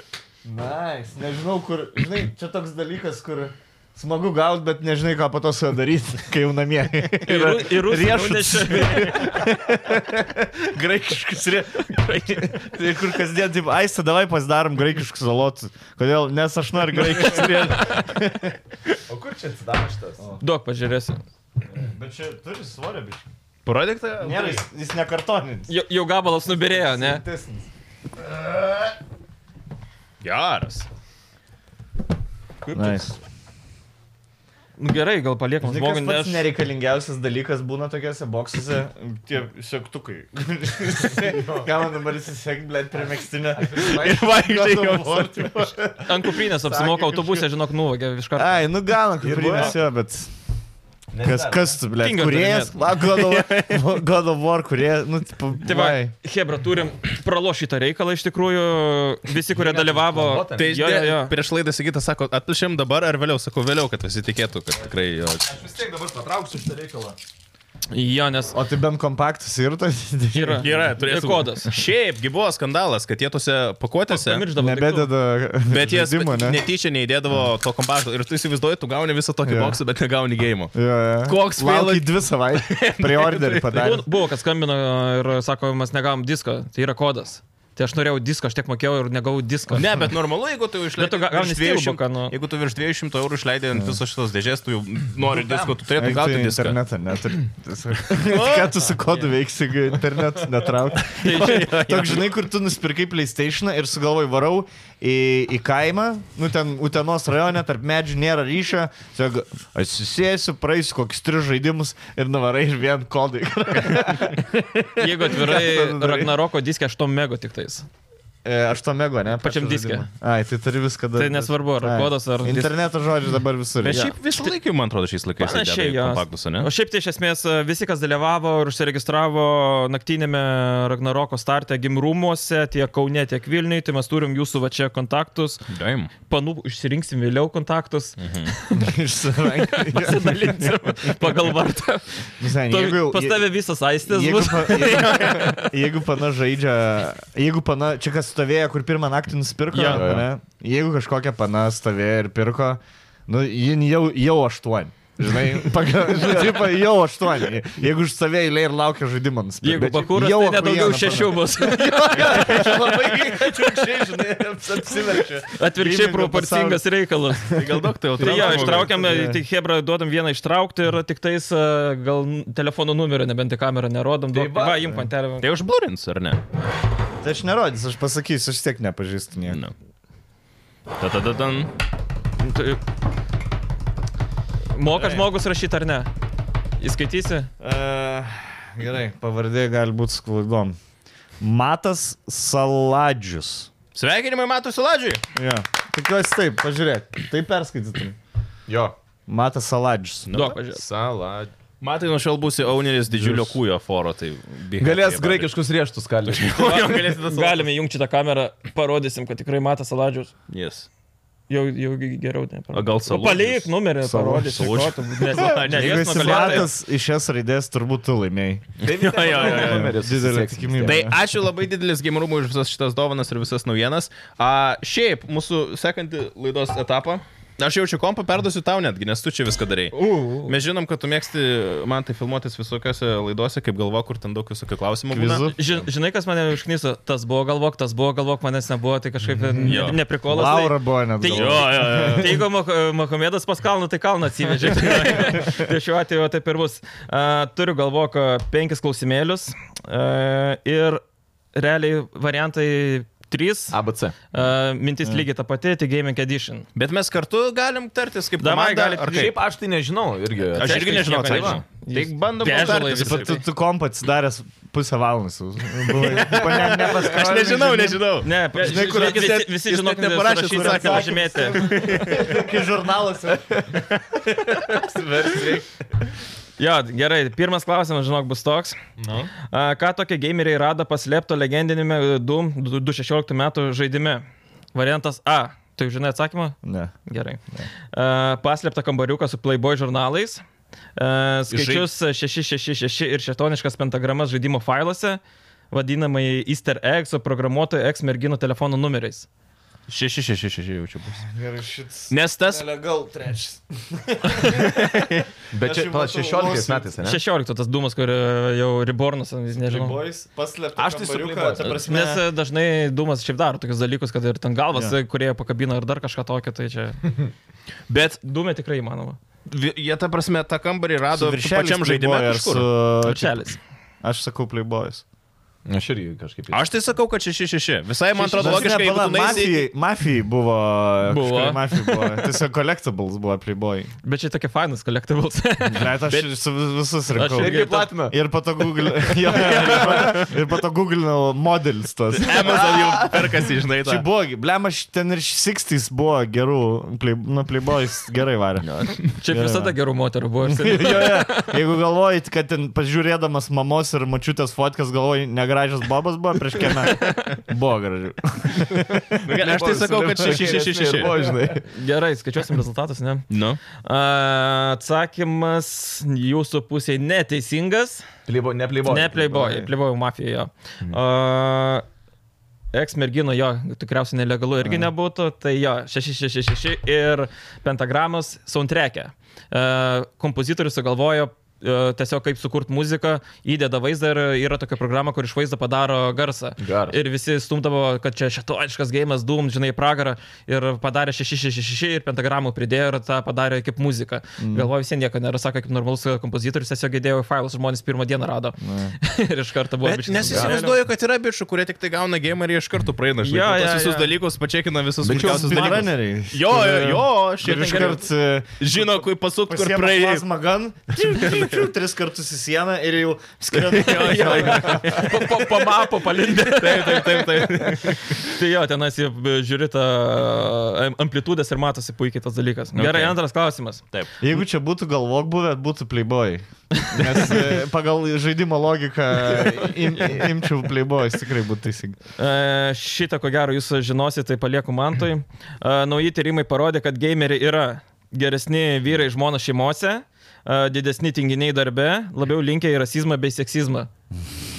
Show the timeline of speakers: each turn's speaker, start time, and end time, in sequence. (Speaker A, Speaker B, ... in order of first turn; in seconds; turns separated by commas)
Speaker A: 0.4-18.6, Speaker B: 7.2-9.5, Speaker B: 12.1-12.4, Speaker B: 17.3-17.9, Speaker C: 19.1-20.2, Speaker B: 20.4-21.2, Speaker A: 21.6-23.3, Speaker D: 23.6-24.6, Speaker A: 24.2-25.7, Speaker B: 25.7-27.2, Speaker A: 26.7-27.7, Speaker D: 30.2-30.9, Speaker A: 32.7-33.2, Speaker B: 34.8-36.5, Speaker A: 35.6-47.4, Speaker C: 41.1-41.7, Speaker C: 43.5-44.2, Speaker D: 43.7-45.7, Speaker B: 46.1-48.7, Speaker A: 48.4-50.3, Speaker C: 49.2-49.8, Speaker C: 51.1-51.8, Speaker A: 51.2-56.1, Speaker B: 52.0-52.8, Speaker D: 53.1-53.9, Speaker B: 55.6-61.4, Speaker C: 59.5-60.8, Speaker D: 60.6-65.6, Speaker C: 65.4-67.2, Speaker B: 67.9-68.6, Speaker A: 68.5-70.8, Speaker B: 70.3-71.8, Speaker D: 70.6-74.5, Speaker B: 74.1-75.1, Speaker A: 74.6-76.6, Speaker D: 75.7-80.8, Speaker A: 79.5-79.8, Speaker A: 80.7-84.1, Speaker D: 81.3-83.9, Speaker B: 83.8-90.0, Speaker D: 89.7-96.8, Speaker B: 91.0-92.3, Speaker C: 95.3-95.8, Speaker A: 96.0-116.3, Speaker D: 98.1-98.9, Speaker B: 101.2-102.2, Speaker D: 101.2-102.2, Speaker B: 115.0-117.9, Speaker A: 118.5-124.1, Speaker B: 119.4-120.1, Speaker B: 121.2-122.7, Speaker D: 123.8-126.7, Speaker B: 123.9-124.5, Speaker B: 125.4-135.6, Speaker D: 135.7-136.1, Speaker B: 136.3-138.9, Speaker D: 138.2-138.5, Speaker A: 138.7-140.7, Speaker B: 139.6-145.8, Speaker A: 142.4-143.5, Speaker A: 144.1-166.8, Speaker D: 144.8-145.5, Speaker B: 149.7-150.2, Speaker C: 149.8-150.3, Speaker B: 159.6-163.4, Speaker C: 159.7-160.1, Speaker B: 165.5-167.7, Speaker D: 167.5-168.9, Speaker B: 168.2-175.5, Speaker C: 168.2-168.9, Speaker A: 168.6-169.4, Speaker C: 174.3-174.9, Speaker D: 175.4-176.4, Speaker A: 177.2-179.6, Speaker D: 181.0-181.7, Speaker B: 182.4-182.8, Speaker B: 184.7-186.1, Speaker A: 184.9-185.3, Speaker B: 186.8-187.5, Speaker A: 187.6-190.8, Speaker A: 191.4-193.7, Speaker D: 193.9-195.2, Speaker A: 195.3-198.2, Speaker C: 198.7-199.0, Speaker A: 199.3-200.3, Speaker D: 200.3-200.6, Speaker B: 200.3-200.8, Speaker C: 200.7-201.5, Speaker D: 201.8-205.5, Speaker A: 203.1-203.6, Speaker C: 204.8-207.2, Speaker D: 206.3-207.6, Speaker B: 206.6-210.3, Speaker D: 210.5-210.9, Speaker B: 211.5-216.7, Speaker D: 212.7-213.7, Speaker A: 214.0-218.7, Speaker D: 214.4-216.6, Speaker C: 218.8-221.1, Speaker D: 218.8-220.0, Speaker A: 219.4-221.2, Speaker D: 220.8-235.5, Speaker B: 229.9-230.5, Speaker A: 230.0-230.4, Speaker A: 235.1-235.6, Speaker B: 235.5-251.0, Speaker A: 239.6-242.3, Speaker D: 239.6-240.0, Speaker D: 241.3-242.4, Speaker B: 251.5-253.8, Speaker C: 253.7-254.2, Speaker B: 254.3-256.7, Speaker D: 256.8-259.4, Speaker B: 258.4-259.3, Speaker C: 259.1-261.6, Speaker D: 260.6-263.4, Speaker B: 260.6-263.4, Speaker A: 262.7-268.0, Speaker D: 265.9-272.4, Speaker B: 268.2-272.1, Speaker A: 268.6-269.3, Speaker A: 270.5-273.9, Speaker A: 274.5-275.6, Speaker B: 276.6-278.8, Speaker B: 279.4-290.4, Speaker A: 286.6-286.9, Speaker B: 291.0-299.3, Speaker D: 291.5-291.9, Speaker D: 299.9-301.2, Speaker A: 301.2-305.1, Speaker D: 302.1-302.6, Speaker D: 304.6-305.2, Speaker C: 305.5-307.2, Speaker A: 305.6-306.9, Speaker B: 307.0-310.0, Speaker A: 309.6-312.2, Speaker C: 310.8-311.8, Speaker B: 311.8-317.3, Speaker D: 317.9-318.2, Speaker B: 318.2-319.2, Speaker D: 319.5-322.7, Speaker A: 321.1-323.5, Speaker B: 323.0-323.6, Speaker A: 324.0-325.0, Speaker C: 325.7-326.6, Speaker D: 326.5-329.7, Speaker C: 328.3-328.6, Speaker A: 328.4-333.9, Speaker B: 331.1-332.2, Speaker B: 334.0-336.2, Speaker A: 335.7-343.3, Speaker B: 337.2-337.9, Speaker C: 337.3-338.1, Speaker B: 339.3-340.1, Speaker D: 339.4-340.3, Speaker C: 339.5-339.8, Speaker D: 342.1-344.1, Speaker A: 343.8-349.8, Speaker D: 348.6-349.0, Speaker B: 349.1-351.6, Speaker A: 350.5-359.3, Speaker D: 359.2-361.3, Speaker C: 359.3-361.7, Speaker B: 361.7-363.3, Speaker D: 363.3-363.6, Speaker B: 363.8-368.1, Speaker C: 368.3-369.5, Speaker B: 368.9-371.9, Speaker A: 369.3-369.7, Speaker B: 372.7-400.8, Speaker A: 374.6-374.9, Speaker C: 386.6-387.0, Speaker A: 394.4-394.7, Speaker A: 398.6-399.0, Speaker D: 399.8-408.0, Speaker B: 403.2-404.1, Speaker A: 405.1-408.9, Speaker B: 405.1-405.9, Speaker B: 407.5-408.0, Speaker D: 408.6-410.2, Speaker A: 409.5-415.1, Speaker D: 411.0-411.6, Speaker D: 413.5-418.2, Speaker B: 413.8-423.8, Speaker D: 422.7-423.2, Speaker A: 424.2-432.0, Speaker B: 427.0-427.4, Speaker C: 429.4-430.1, Speaker B: 432.2-443.9